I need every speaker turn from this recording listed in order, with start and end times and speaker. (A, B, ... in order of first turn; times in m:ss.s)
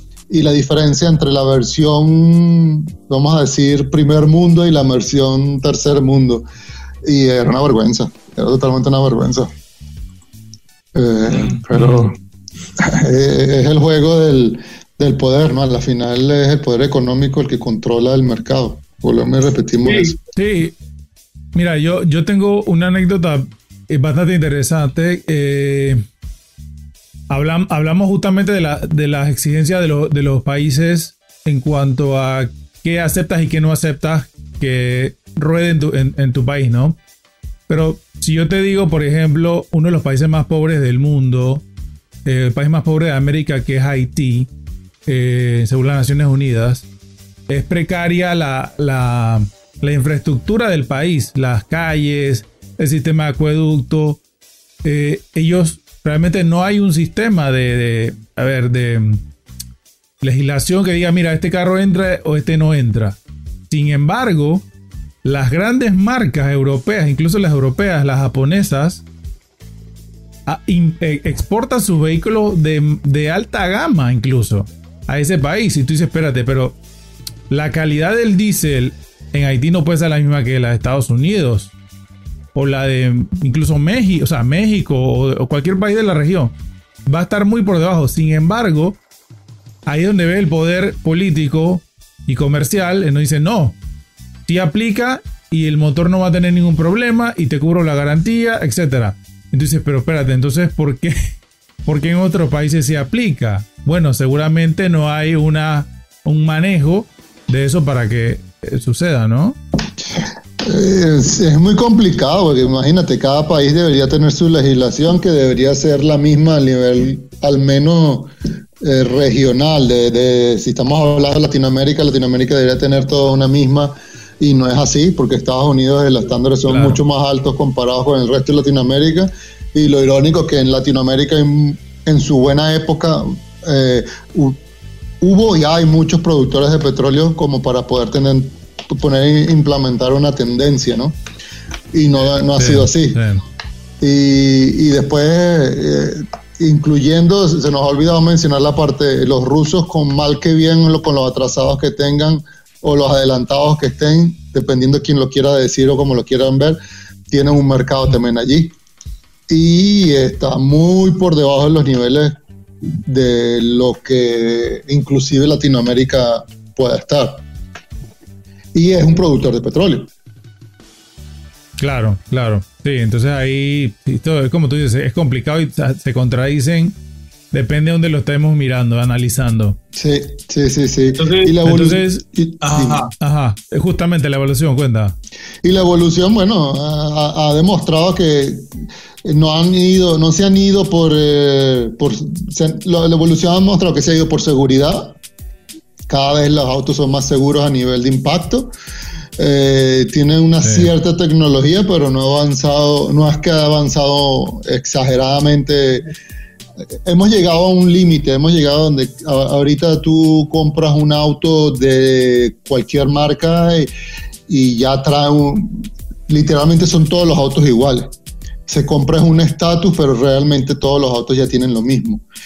0:00.3-0:06.4 A
0:07.0-0:09.5 A
0:10.9-0:12.1 A
0:11.7-0:12.1 B
0:12.8-0:20.2 A
0:19.8-0:20.8 B
0:21.5-0:26.0 B
0:27.3-0:37.0 B
0:37.7-0:41.6 B
0:42.2-0:44.5 B
0:45.1-0:46.8 B
0:47.5-0:54.2 B
0:54.8-0:59.2 B
1:00.2-1:04.7 B
1:05.2-1:09.0 B
1:10.4-1:16.8 B
1:17.5-1:21.7 B
1:22.5-1:26.5 B
1:27.1-1:29.0 B
1:29.9-1:33.8 B
1:34.5-1:41.3 B
1:41.8-1:49.6 B
1:50.6-2:14.6 A
2:06.7-2:07.0 B
2:15.2-2:21.2 A
2:21.9-2:23.2 A
2:22.6-2:23.4 B
2:24.0-2:36.8 A
2:37.3-2:38.8 A
2:39.5-2:42.3 A
2:43.0-2:47.4 A
2:48.7-2:50.1 A
2:51.8-2:57.0 B
2:57.5-2:59.8 B
2:59.9-3:03.1 A
3:01.2-3:05.2 B
3:05.6-3:15.2 A
3:16.1-3:18.7 A
3:19.4-3:26.1 A
3:20.6-3:20.9 B
3:27.0-3:33.9 A
3:34.5-3:38.1 A
3:38.7-3:42.2 A